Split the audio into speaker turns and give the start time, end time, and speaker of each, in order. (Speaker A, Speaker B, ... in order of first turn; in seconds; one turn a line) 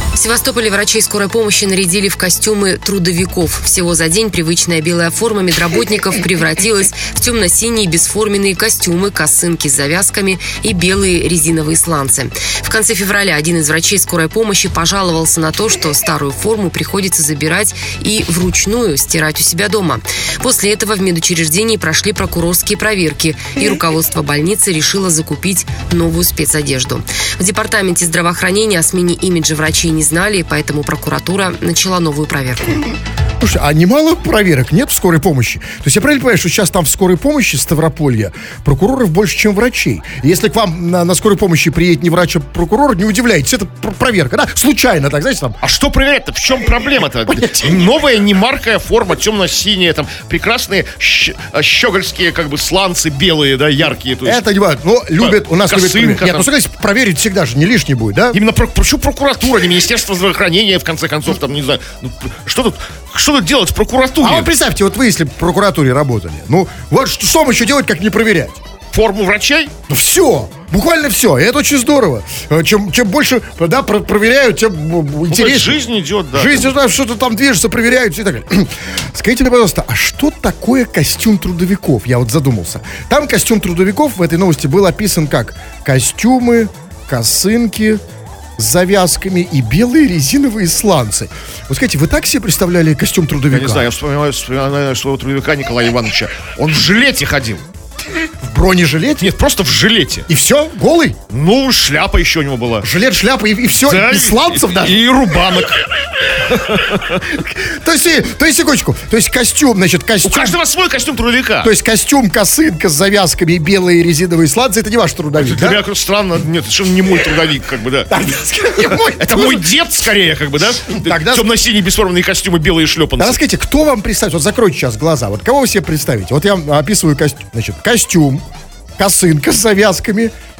Speaker A: 0.1-32.8
Speaker B: 33.4-45.6
Speaker C: 45.6-54.4
Speaker B: 47.3-47.9
Speaker B: 54.2-58.4
Speaker C: 55.2-56.5
Speaker C: 58.3-64.5
Speaker B: 64.2-68.6
Speaker C: 68.9-69.7
Speaker B: 69.9-75.8
Speaker C: 75.3-76.7
Speaker B: 76.3-88.0
Speaker B: 88.6-93.9
Speaker C: 93.5-97.7
Speaker B: 98.3-99.3
Speaker C: 99.2-100.3
Speaker B: 100.3-101.2
Speaker C: 101.3-102.9
Speaker B: 102.8-105.0
Speaker C: 103.8-107.3
Speaker B: 107.3-110.6
Speaker C: 110.2-111.7
Speaker B: 111.6-115.8
Speaker C: 115.4-118.1
Speaker B: 118.1-119.7
Speaker C: 118.8-123.4
Speaker B: 120.9-121.5
Speaker B: 123.2-128.4
Speaker B: 129.0-130.3